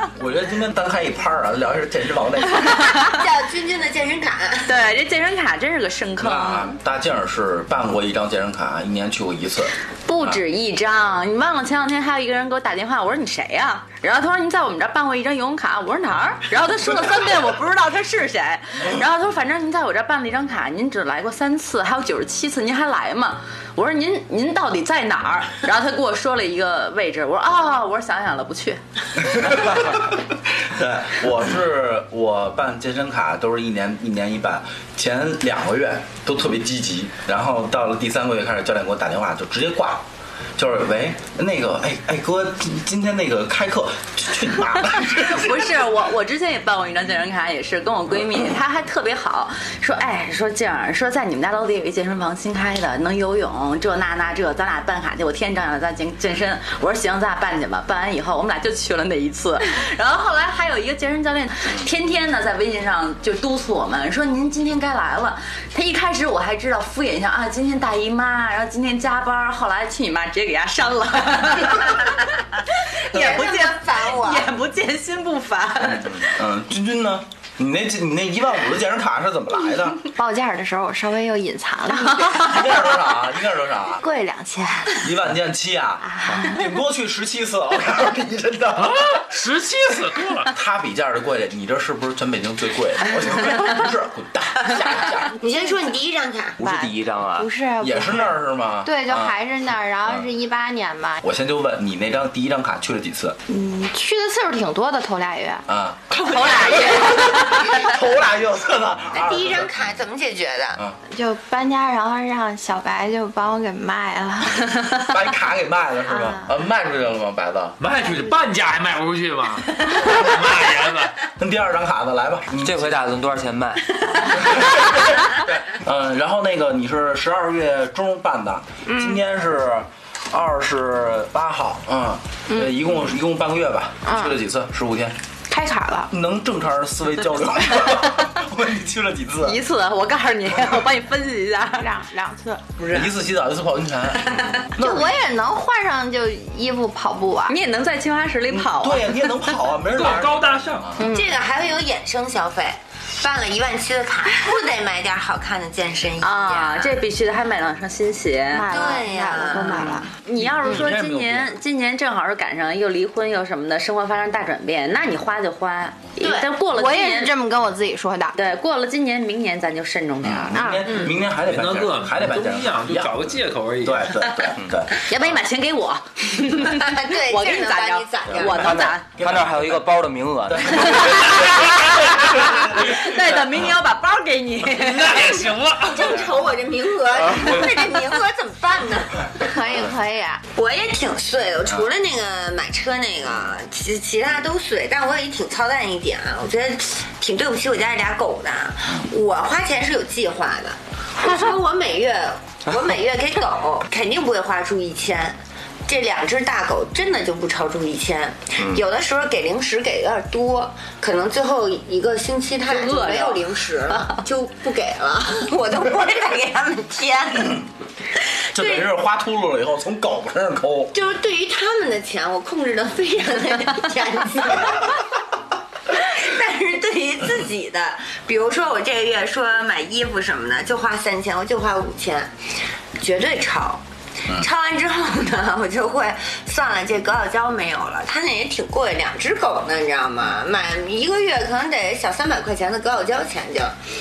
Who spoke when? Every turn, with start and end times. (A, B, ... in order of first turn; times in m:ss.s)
0:00.2-0:02.8 A
0:02.6-0:04.7 B
0:02.8-0:03.2 C
0:04.7-0:06.7 C
0:06.2-0:10.4 A
0:10.1-0:28.8 C
0:29.2-0:40.0 A
0:40.6-0:45.7 A
0:45.1-1:16.3 C
1:13.1-1:14.5 B
1:15.8-1:20.0 A
1:20.1-1:22.7 D
1:22.2-1:24.0 A
1:24.0-1:25.0 D
1:25.0-1:29.2 A
1:26.0-1:26.5 D
1:28.8-1:30.5 E
1:30.5-1:35.4 A
1:35.4-1:36.6 B
1:36.6-1:37.5 F
1:36.6-1:41.2 D
1:37.8-1:39.4 A
1:41.2-1:43.4 A
1:43.5-1:45.6 D
1:45.7-1:49.7 A
1:46.3-1:47.7 C
1:46.3-1:47.4 D
1:46.3-1:47.9 B
1:49.1-1:50.8 B
1:51.1-1:55.0 D
1:55.1-1:57.8 A
1:56.1-1:56.5 D
1:57.8-2:01.2 E
2:01.4-2:02.9 A
2:02.6-2:04.6 F
2:04.4-2:15.2 A
2:08.9-2:09.2 D
2:14.0-2:14.4 D
2:15.5-2:16.1 D
2:16.1-2:19.6 A
2:19.4-2:21.9 C
2:21.8-2:22.8 D
2:22.8-2:25.1 A
2:24.8-2:27.6 D
2:27.5-2:29.5 C
2:28.5-2:31.0 A
2:29.9-2:31.0 E
2:31.0-2:31.3 D
2:31.1-2:37.0 B
2:36.2-2:38.7 C
2:38.5-2:40.1 D
2:38.7-2:40.0 B
2:39.5-2:47.3 C
2:40.4-2:41.6 E
2:46.2-2:46.5 B
2:46.7-2:48.4 D
2:48.3-2:50.6 C
2:50.2-2:55.0 A
2:50.5-2:51.0 D
2:51.4-2:54.1 E
2:55.0-2:59.1 C
2:56.6-2:58.9 B
2:58.4-3:01.4 F
2:59.2-2:59.9 A
3:00.5-3:03.0 A
3:00.8-3:05.5 C
3:04.7-3:06.2 E
3:05.8-3:09.3 B
3:09.4-3:10.4 D
3:10.6-3:37.6 B
3:32.7-3:34.2 C
3:38.5-3:41.0 A
3:38.6-3:38.9 B
3:40.9-3:45.0 B
3:45.9-3:52.3 B
3:53.0-4:03.8 B